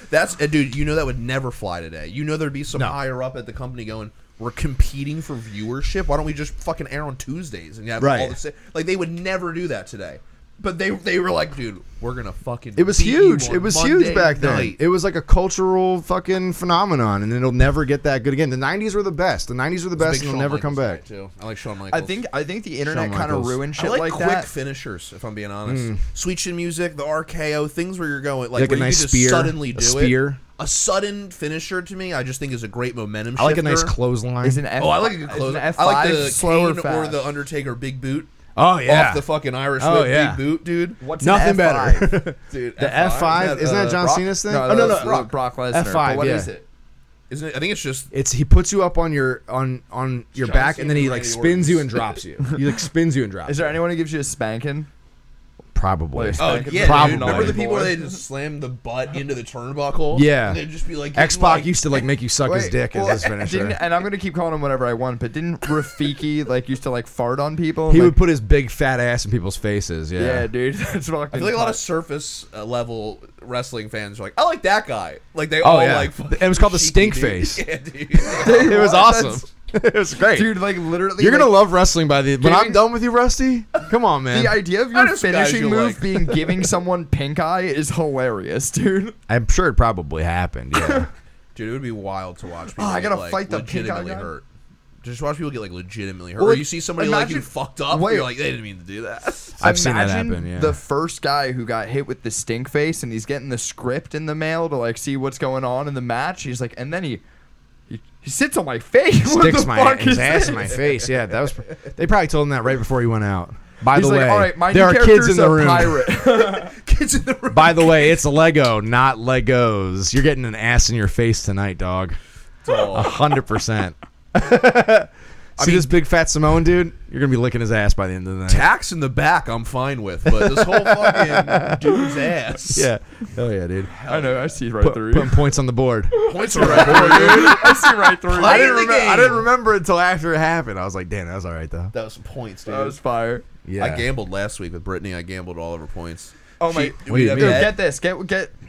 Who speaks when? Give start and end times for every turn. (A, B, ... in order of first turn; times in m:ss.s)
0:00.1-0:14.8 A
0:08.0-0:08.4 B
0:12.8-0:21.0 B
0:20.0-0:22.2 A
0:21.9-0:24.5 C
0:22.9-0:23.6 B
0:23.7-0:33.9 A
0:25.6-0:26.0 B
0:28.5-0:30.4 B
0:33.4-0:34.6 B
0:34.4-0:37.2 C
0:34.8-0:38.3 A
0:38.6-0:39.2 B
0:38.9-0:41.0 A
0:39.8-0:40.4 B
0:41.0-0:42.2 C
0:41.2-0:46.5 B
0:42.5-0:45.3 A
0:44.2-0:46.6 C
0:47.3-0:48.1 A
0:48.1-0:53.7 B
0:50.4-0:52.2 A
0:53.4-0:54.9 C
0:55.7-0:57.9 B
0:56.1-0:57.9 C
0:56.4-1:02.0 A
1:00.1-1:00.6 B
1:01.1-1:03.8 B
1:02.4-1:08.2 C
1:07.9-1:10.5 B
1:10.2-1:11.8 C
1:11.3-1:18.9 A
1:15.6-1:17.6 B
1:18.4-1:20.6 B
1:18.4-1:19.4 C
1:20.3-1:21.6 C
1:21.2-1:24.6 B
1:22.4-1:22.8 C
1:24.3-1:29.2 C
1:24.9-1:26.4 A
1:29.3-1:31.1 B
1:30.8-1:31.0 C
1:31.5-1:34.4 A
1:32.8-1:34.3 C
1:35.0-1:39.6 A
1:36.4-1:38.3 C
1:39.6-1:40.8 B
1:39.6-1:47.2 C
1:47.9-1:51.0 C
1:49.3-1:56.1 B
1:53.9-1:56.7 C
1:56.2-1:58.2 A
1:57.5-2:02.2 B
2:02.6-2:03.1 A
2:02.8-2:08.7 B
2:05.6-2:05.9 A
2:08.5-2:12.9 A
2:10.2-2:12.2 B
2:12.7-2:13.9 B
2:13.9-2:14.6 A
2:14.1-2:15.4 C
2:14.8-2:17.8 B
2:16.1-2:19.4 C
2:16.2-2:19.4 A
2:18.3-2:21.9 B
2:21.9-2:23.0 A
2:22.6-2:23.4 C
2:23.6-2:24.1 B
2:23.8-2:27.8 A
2:26.6-2:28.5 C
2:27.0-2:27.8 B